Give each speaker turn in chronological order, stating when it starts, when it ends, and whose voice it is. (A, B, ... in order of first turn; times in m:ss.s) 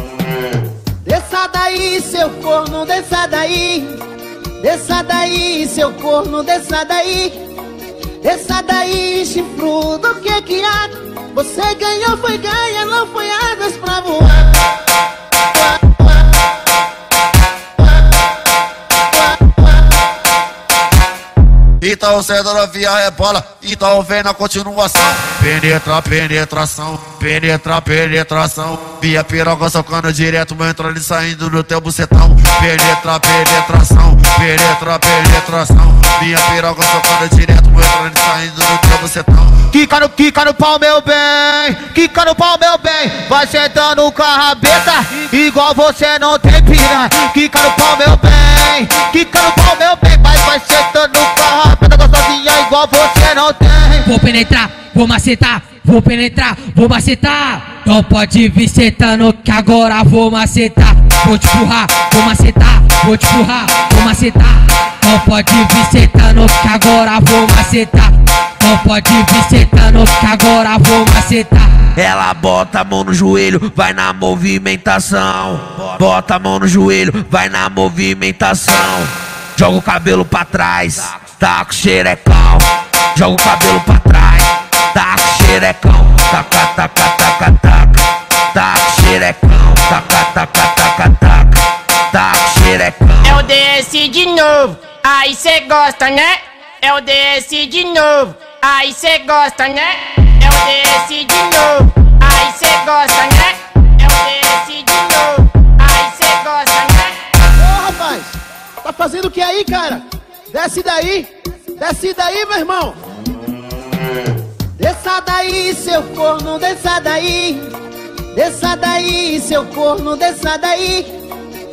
0:01.0-0:04.0 A
0:04.6-0:07.4 A
0:08.2-0:14.5 A
0:21.8-0:39.7 B
0:39.7-0:54.0 C
0:54.0-1:11.9 D
1:12.0-1:31.6 E
1:32.1-1:33.4 E
1:33.2-1:47.2 F
1:47.6-1:53.0 A
1:54.8-1:57.7 A
1:58.3-2:01.1 A